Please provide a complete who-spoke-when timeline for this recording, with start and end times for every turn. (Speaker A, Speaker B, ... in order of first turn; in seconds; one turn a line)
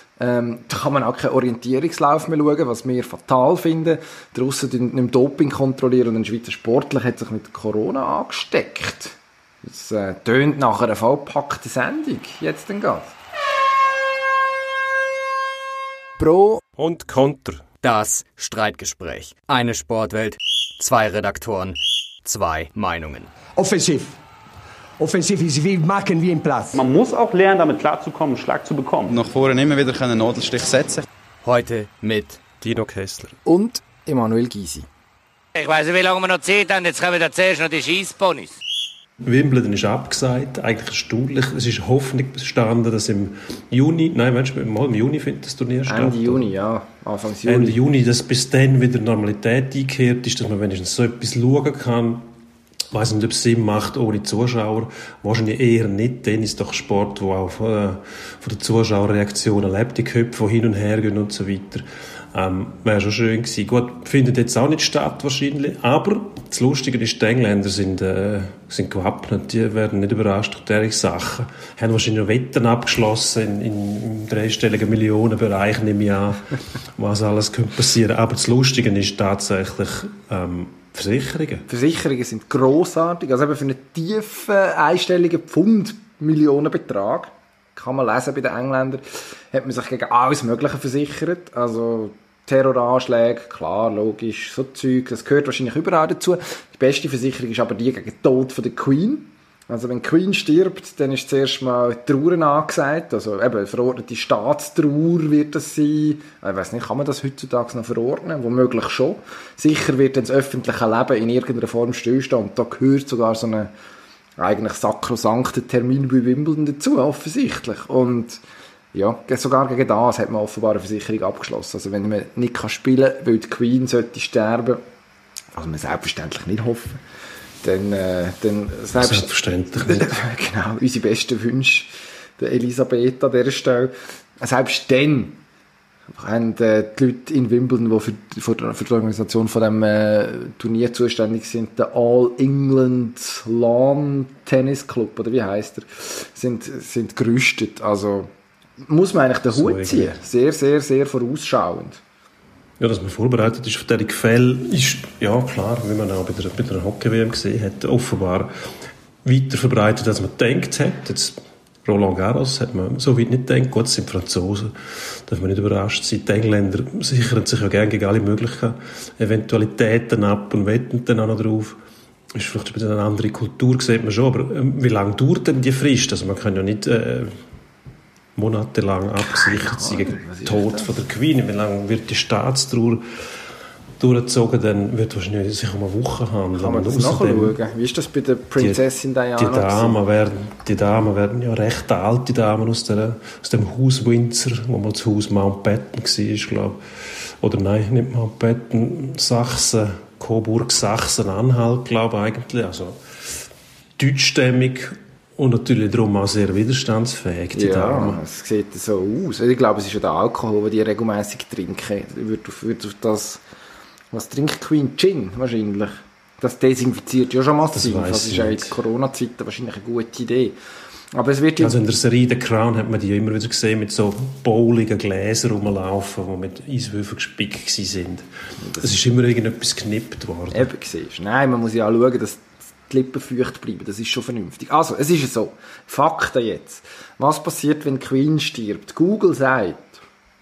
Speaker A: 0.2-13.1
Speaker A: 16.2-16.6
Speaker B: 16.8-17.7
Speaker C: 17.8-23.3
Speaker D: 23.6-24.2
Speaker D: 25.0-26.8
Speaker E: 26.7-29.2
Speaker F: 29.1-31.0
Speaker C: 31.4-32.4
Speaker B: 32.6-33.4
Speaker A: 33.5-34.9
Speaker G: 35.5-38.5
Speaker B: 39.2-46.5
Speaker A: 45.9-47.8
Speaker B: 47.4-52.3
Speaker B: 52.9-81.7
Speaker A: 81.7-113.7
Speaker A: 114.4-118.4
Speaker A: 118.9-124.8
Speaker A: 125.5-127.0
Speaker A: 127.6-135.4
Speaker B: 129.0-130.2
Speaker A: 136.1-148.3
Speaker A: 148.8-152.0
Speaker B: 149.5-150.2
Speaker B: 152.8-158.5
Speaker B: 159.2-171.8
Speaker B: 172.3-177.4
Speaker B: 178.3-183.0
Speaker A: 179.2-180.9
Speaker B: 184.0-187.6
Speaker A: 186.6-190.0
Speaker B: 188.6-188.8
Speaker B: 189.4-196.8
Speaker B: 197.4-203.0
Speaker B: 204.0-208.2
Speaker A: 207.5-213.4
Speaker A: 214.1-220.6
Speaker B: 217.7-218.8
Speaker A: 221.1-221.8
Speaker B: 221.6-228.3
Speaker A: 228.6-228.9
Speaker B: 228.8-230.7
Speaker A: 230.5-240.0